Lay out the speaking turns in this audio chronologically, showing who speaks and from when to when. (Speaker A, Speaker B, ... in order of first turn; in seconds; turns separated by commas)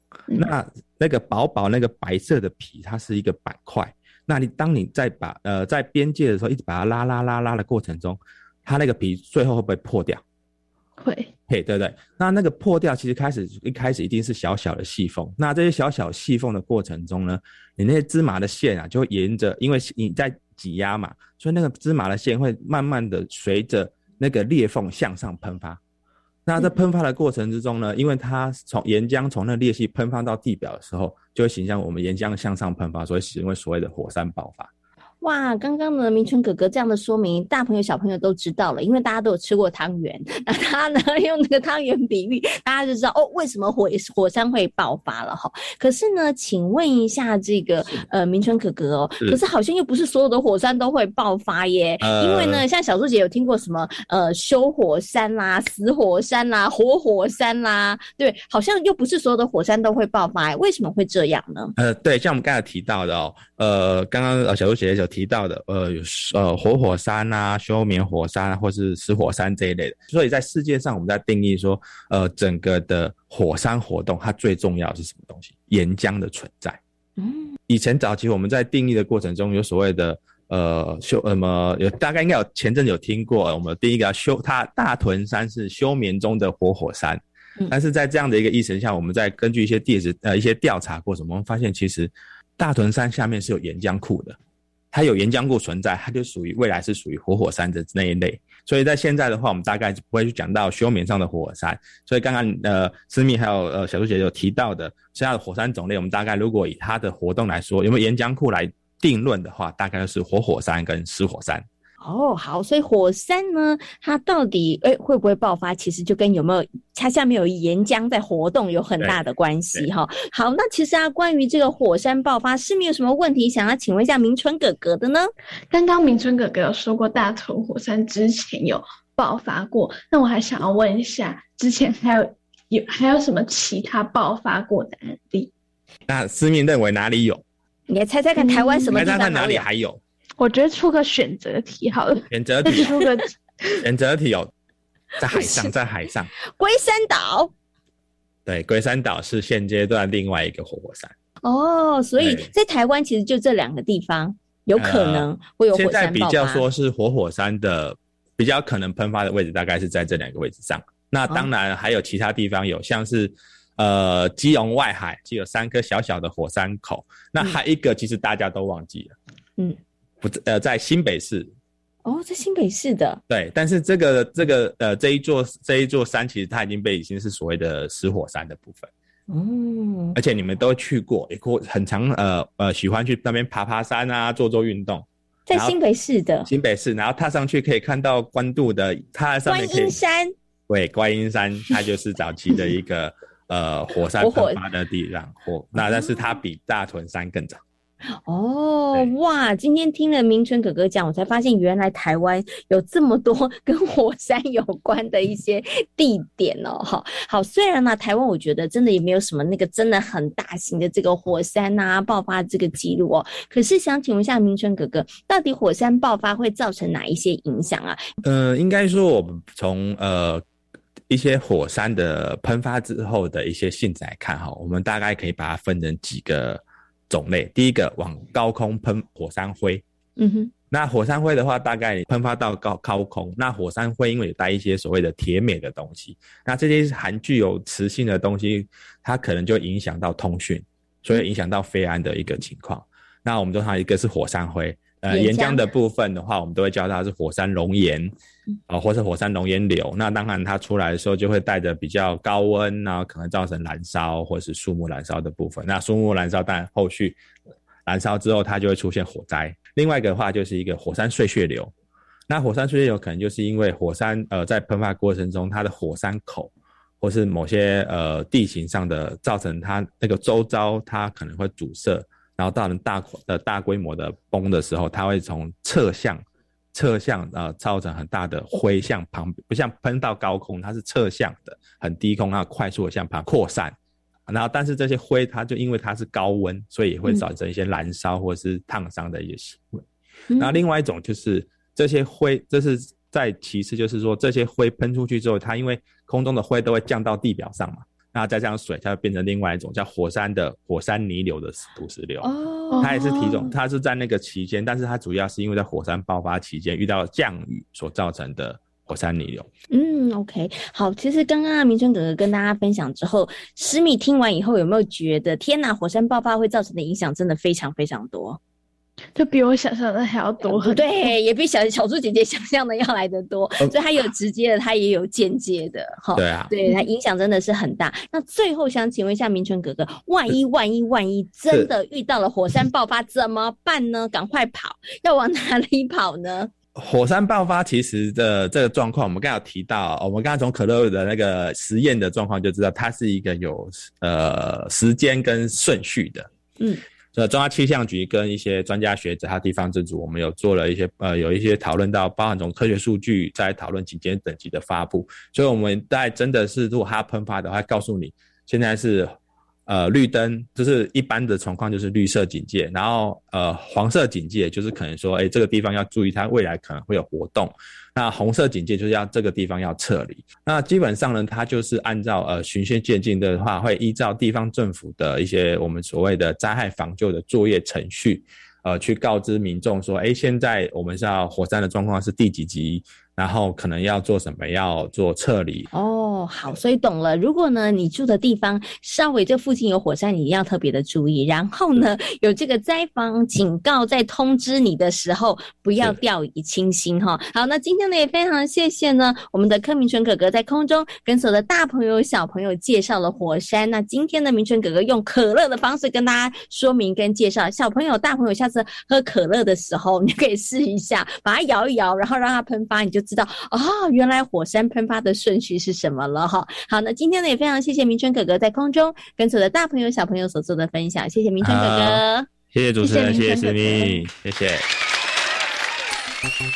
Speaker A: 0.3-10.2, Speaker B: 11.0-11.3, Speaker A: 11.5-25.8, Speaker A: 26.5-34.7, Speaker C: 35.2-61.7, Speaker A: 52.0-52.6, Speaker A: 61.8-76.8, Speaker C: 77.2-77.5, Speaker A: 77.7-94.4, Speaker A: 94.9-111.6, Speaker C: 112.0-125.3, Speaker B: 125.7-135.5, Speaker A: 136.1-137.4, Speaker C: 137.9-139.7, Speaker B: 138.4-138.9, Speaker A: 138.9-140.0, Speaker B: 140.4-143.2, Speaker A: 142.3-143.0, Speaker A: 143.8-144.5, Speaker A: 145.2-146.3, Speaker C: 146.6-147.5, Speaker A: 148.5-151.1, Speaker C: 151.4-156.6, Speaker A: 152.2-152.5, Speaker A: 154.8-169.1, Speaker A: 170.2-171.5, Speaker C: 172.1-173.2, Speaker A: 173.3-178.9, Speaker C: 179.3-180.1, Speaker A: 180.1-185.8, Speaker C: 185.5-186.5, Speaker A: 186.4-189.9, Speaker C: 189.5-190.3, Speaker A: 190.7-197.6, Speaker C: 194.2-194.6, Speaker C: 195.8-196.1, Speaker C: 198.2-218.0, Speaker A: 218.2-220.4, Speaker A: 221.1-229.8, Speaker C: 230.2-230.5, Speaker A: 230.7-248.1, Speaker C: 245.1-245.7, Speaker A: 248.7-257.2, Speaker A: 257.9-261.7, Speaker A: 262.3-276.2, Speaker A: 276.7-283.8, Speaker A: 284.3-289.8, Speaker C: 290.3-290.6, Speaker A: 290.4-302.3, Speaker C: 302.2-303.5, Speaker A: 302.8-309.5, Speaker C: 309.7-318.4, Speaker B: 319.1-320.9, Speaker C: 320.4-336.5, Speaker A: 326.1-326.5, Speaker A: 336.8-346.3, Speaker A: 347.1-359.1, Speaker A: 359.7-385.7, Speaker C: 385.7-422.3, Speaker A: 421.4-424.6, Speaker B: 422.8-424.0